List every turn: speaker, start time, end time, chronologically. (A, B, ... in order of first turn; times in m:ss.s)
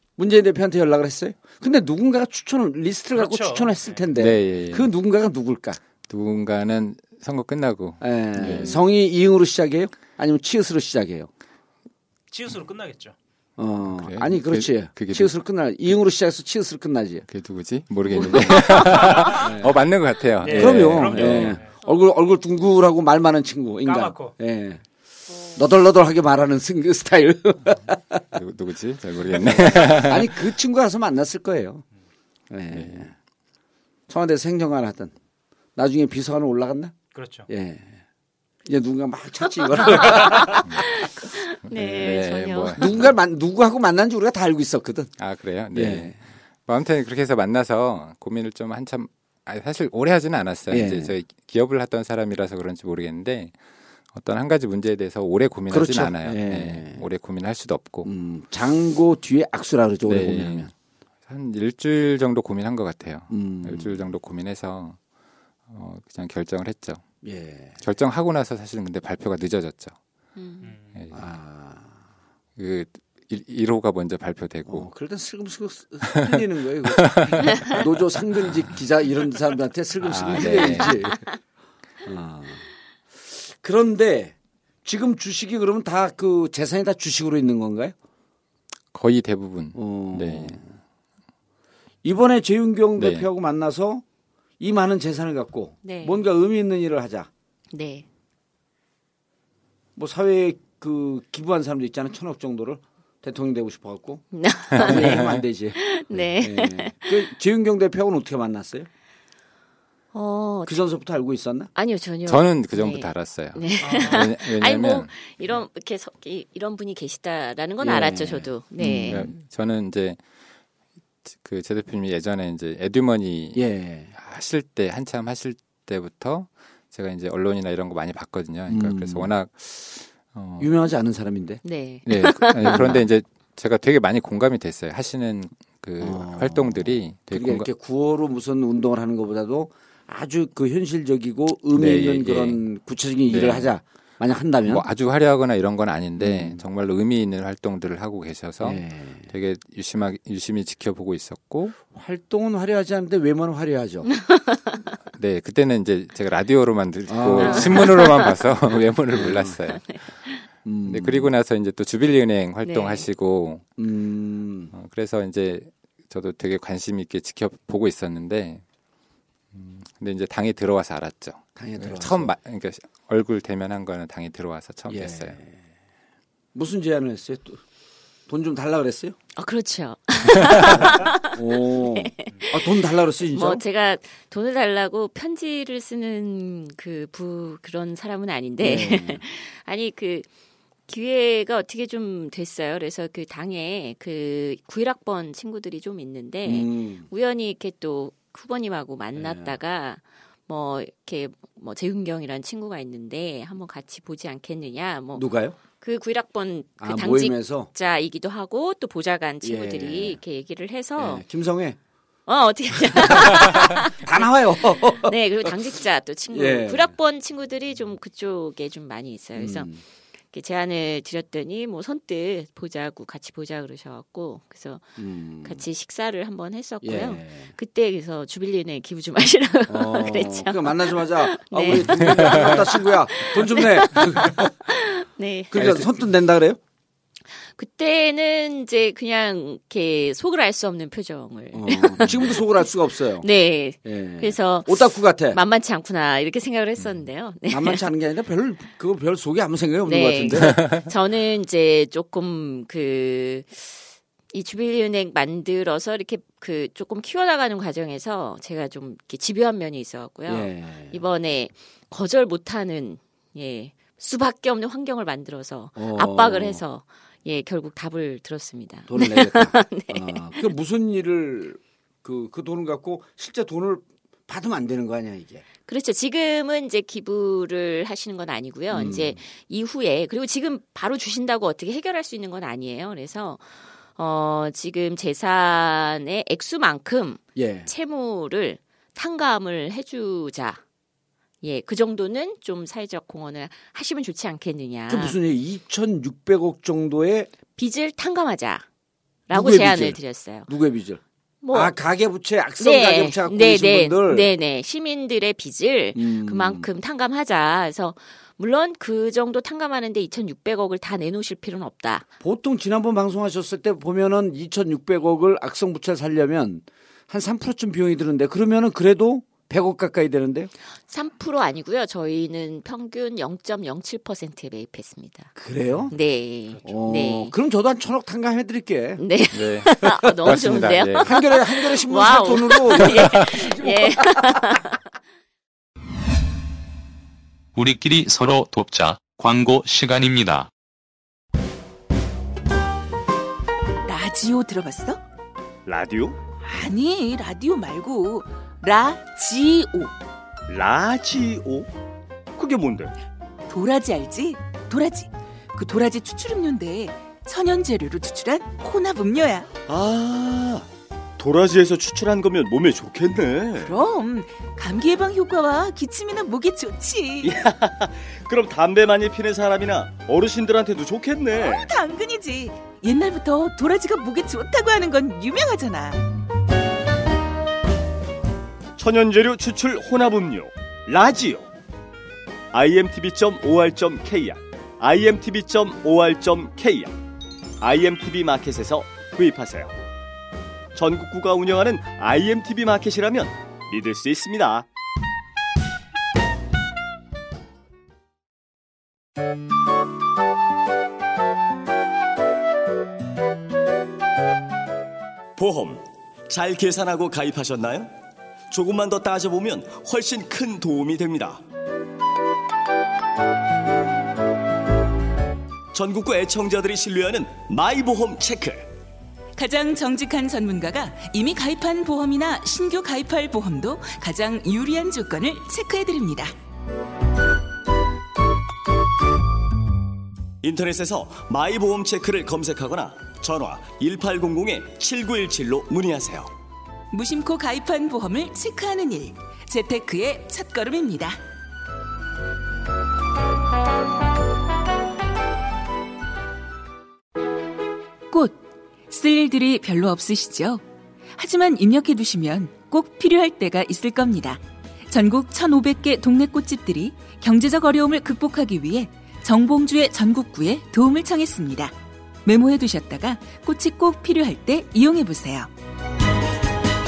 0:00.2-0:05.8 A
0:03.1-0:04.0 B
0:04.1-0:04.9 C
0:06.1-0:08.8 C
0:08.0-0:11.3 A
0:12.3-0:13.2 B
0:13.6-0:17.2 A
0:13.9-0:15.3 C
0:17.3-0:21.6 C
0:18.2-0:18.4 D
0:18.3-0:18.6 A
0:18.7-0:19.4 B
0:19.2-0:19.8 A
0:20.4-0:21.7 B
0:20.5-0:24.8 A
0:23.8-0:24.4 B
0:25.5-0:28.2 A
0:28.3-0:30.5 C
0:29.4-0:31.8 A
0:32.5-0:33.1 A
0:32.7-0:33.1 C
0:34.1-0:35.1 A
0:35.8-0:36.9 A
0:37.1-0:37.5 B
0:37.5-0:38.0 A
0:38.7-0:40.7 A
0:40.6-0:40.9 C
0:40.7-0:42.9 D
0:41.7-0:43.1 C
0:42.8-0:45.1 A
0:45.2-0:46.2 C
0:45.7-0:46.2 A
0:46.7-0:53.6 C
0:50.7-0:51.2 A
0:54.1-0:58.1 C
0:55.7-0:57.0 A
0:58.0-1:00.7 A
1:00.0-1:00.7 C
1:01.3-1:05.0 C
1:03.3-1:04.0 A
1:05.7-1:07.0 C
1:07.2-1:07.8 A
1:07.8-1:10.0 C
1:10.4-1:10.7 D
1:10.6-1:11.0 B
1:11.0-1:11.3 C
1:11.1-1:12.0 A
1:12.6-1:14.9 C
1:14.7-1:21.2 A
1:16.1-1:17.8 C
1:20.0-1:21.1 C
1:22.0-1:22.7 A
1:23.2-1:28.0 A
1:28.9-1:30.6 C
1:29.8-1:30.7 A
1:32.0-1:34.0 A
1:33.0-1:33.3 C
1:34.6-1:37.3 A
1:35.8-1:36.2 D
1:37.7-1:38.1 D
1:40.0-1:48.9 A
1:44.3-1:47.2 D
1:44.7-1:45.4 C
1:50.1-1:50.8 D
1:50.6-1:51.7 A
1:51.8-1:59.3 D
1:52.3-1:55.1 C
1:53.8-1:54.3 B
1:57.8-1:59.3 A
1:59.1-2:00.2 C
2:01.3-2:03.6 C
2:03.5-2:04.1 A
2:04.2-2:10.7 C
2:08.7-2:09.3 A
2:10.6-2:11.6 A
2:11.6-2:13.0 D
2:12.1-2:17.7 C
2:12.6-2:13.0 A
2:16.0-2:24.9 A
2:21.7-2:22.6 C
2:23.3-2:23.7 C
2:24.6-2:31.8 C
2:26.2-2:26.6 A
2:28.6-2:29.3 A
2:31.9-2:34.1 A
2:34.3-2:34.8 D
2:35.1-2:40.0 C
2:37.1-2:38.1 A
2:37.3-2:38.4 D
2:39.1-2:39.6 A
2:39.8-2:40.3 D
2:40.6-2:41.3 A
2:40.9-2:43.6 C
2:42.6-2:43.1 D
2:43.8-2:44.7 A
2:44.7-2:48.6 C
2:49.5-2:55.4 C
2:51.6-2:52.4 A
2:54.9-2:55.6 A
2:56.6-2:57.6 A
2:58.3-2:59.2 A
2:59.4-3:10.3 D
3:00.8-3:03.6 A
3:08.6-3:09.2 A
3:10.9-3:31.2 D
3:16.4-3:17.1 A
3:19.2-3:19.6 A
3:25.1-3:25.6 A
3:26.8-3:27.7 A
3:29.4-3:30.2 A
3:31.0-3:31.8 A
3:32.3-3:39.7 D
3:32.9-3:35.6 A
3:36.3-3:36.9 A
3:39.4-3:39.8 A
3:40.3-3:44.9 D
3:45.0-3:45.6 A
3:45.4-3:55.8 D
3:46.8-3:47.6 A
3:49.7-3:54.5 A
3:55.5-3:56.6 A
3:57.6-4:02.5 D
4:01.5-4:03.3 A
4:03.2-4:07.8 D
4:03.8-4:05.4 A
4:07.5-4:10.7 A
4:09.8-4:13.8 D
4:14.3-4:30.4 D
4:20.3-4:21.0 A
4:25.8-4:26.6 A
4:28.9-4:35.4 A
4:35.7-4:43.4 D
4:38.7-4:39.2 A
4:44.0-4:50.6 D
4:47.4-4:47.7 A
4:51.4-4:55.2 D
4:54.9-4:57.3 A
4:57.6-4:58.6 D
4:59.3-5:00.5 D
4:59.3-5:01.0 A
5:01.4-5:01.7 D
5:01.5-5:04.3 A
5:02.6-5:12.1 D
5:05.9-5:06.7 A
5:12.2-5:20.5 A
5:20.9-5:25.3 D
5:25.4-5:26.0 A
5:25.9-5:27.3 D
5:26.5-5:26.8 B
5:26.6-5:29.0 A
5:29.0-5:34.8 D
5:29.3-5:31.1 C
5:31.0-5:34.4 A
5:37.6-5:40.5 E
5:43.8-5:45.0 F
5:45.7-5:46.2 G
5:46.4-5:49.9 F
5:50.5-5:51.7 G
5:52.4-5:52.9 G
5:53.5-5:59.5 F
5:59.7-6:03.8 G
6:03.6-6:07.4 F
6:07.2-6:11.7 G
6:11.3-6:16.0 F
6:18.8-6:21.5 G
6:22.5-6:27.0 G
6:27.6-6:29.8 G
6:30.8-6:34.7 G
6:45.4-6:47.9 G
6:48.5-6:51.4 G
6:55.7-6:58.7 G
6:59.4-7:06.3 F
7:10.4-7:16.3 G
7:16.9-7:21.2 F
7:28.1-7:30.6 F
7:31.2-7:41.7 F
7:42.2-7:45.5 F